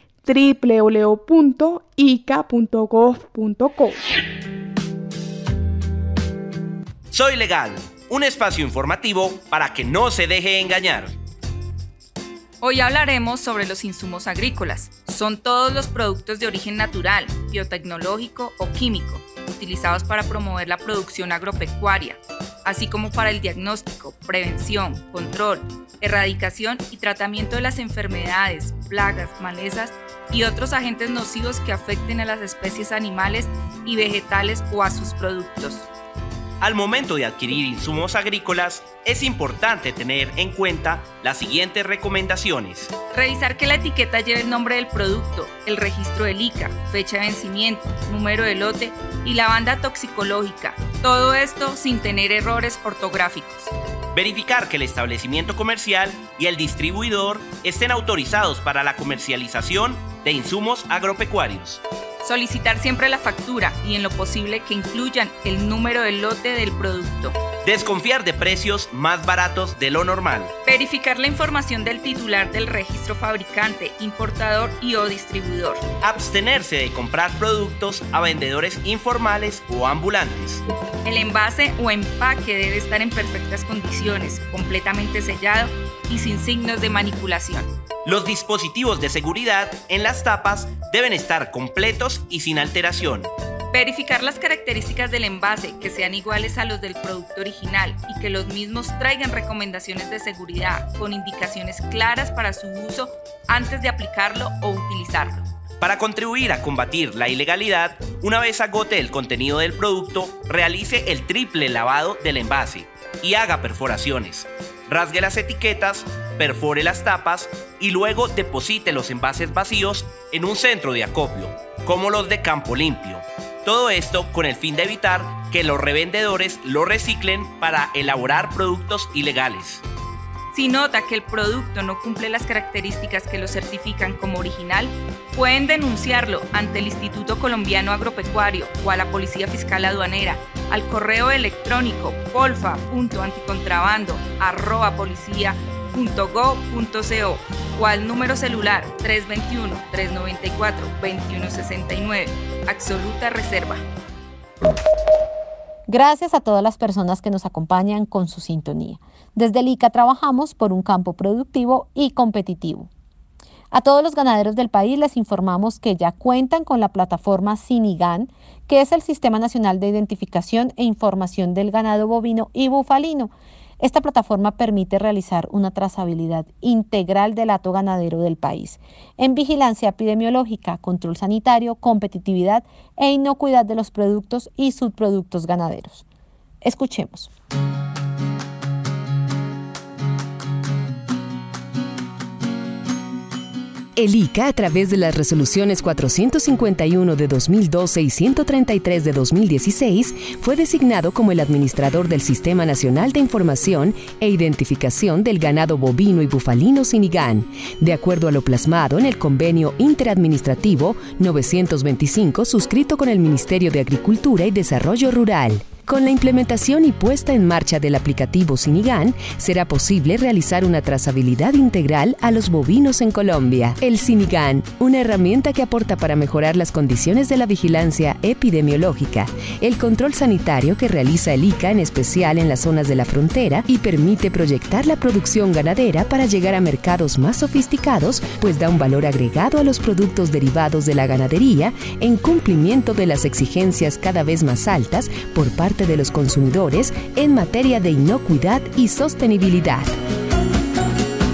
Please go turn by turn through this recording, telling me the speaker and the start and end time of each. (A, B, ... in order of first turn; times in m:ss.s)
0:00.2-0:04.0 A
0:07.1-0:11.1 B
0:12.6-0:35.9 C
0:36.6-0:42.9 B
0:43.1-0:53.7 C
0:54.1-1:01.8 B
1:02.2-1:07.4 C
1:07.6-1:10.5 B
1:10.6-1:15.8 C
1:16.0-1:20.6 B
1:21.0-1:27.7 C
1:28.0-1:33.3 B
1:33.7-1:45.4 C
1:45.8-2:09.8 B
2:10.5-2:33.8 C
2:35.9-2:42.9 D
2:43.7-3:06.0 D
3:06.6-3:07.3 D
3:14.0-4:09.9 E